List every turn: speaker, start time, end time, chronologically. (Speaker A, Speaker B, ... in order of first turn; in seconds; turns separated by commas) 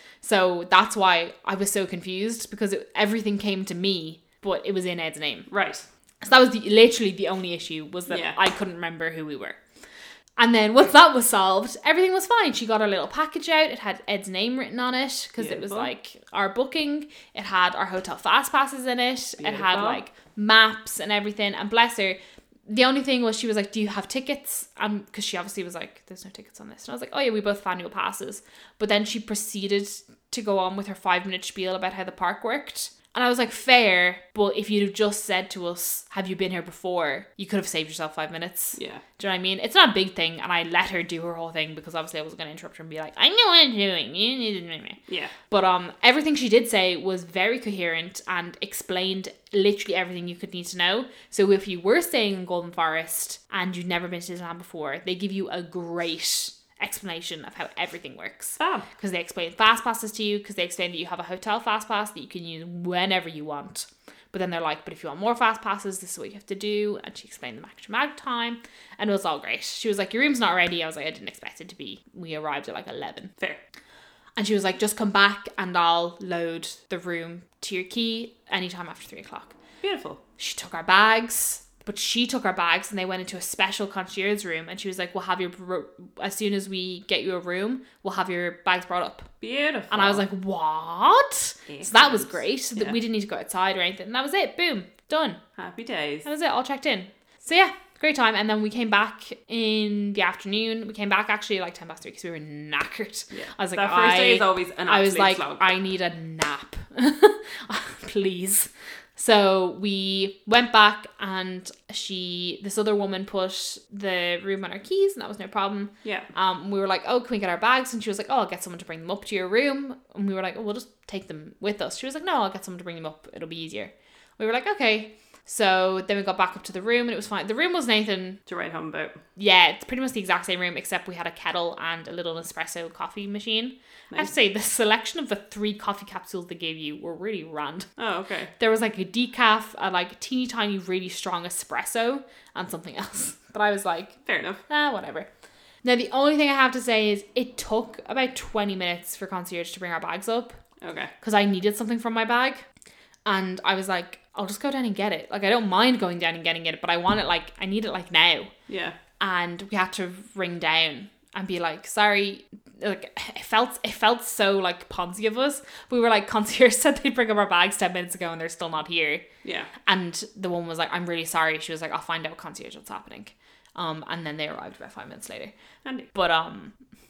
Speaker A: 0.2-5.5, Speaker B: 5.5-5.9, Speaker A: 6.2-9.6, Speaker B: 8.1-8.4, Speaker A: 10.4-73.3, Speaker B: 15.4-15.9, Speaker B: 19.4-20.0, Speaker B: 38.8-39.0, Speaker B: 45.1-45.3, Speaker B: 58.6-58.9, Speaker A: 74.4-79.6, Speaker B: 79.8-80.2, Speaker A: 80.4-89.3, Speaker B: 89.4-90.2, Speaker A: 89.9-95.4, Speaker B: 91.7-93.0, Speaker B: 95.6-96.3, Speaker A: 96.2-128.4, Speaker B: 103.3-105.6, Speaker B: 128.5-129.2, Speaker A: 129.4-137.9, Speaker B: 138.0-138.5, Speaker A: 138.6-145.3, Speaker B: 144.3-144.6, Speaker A: 145.8-150.6, Speaker B: 150.8-151.1, Speaker A: 151.2-152.7, Speaker A: 153.3-158.5, Speaker B: 158.7-159.0, Speaker A: 159.2-169.2, Speaker B: 169.4-169.7, Speaker A: 169.9-175.5, Speaker B: 175.8-176.1, Speaker A: 176.1-176.8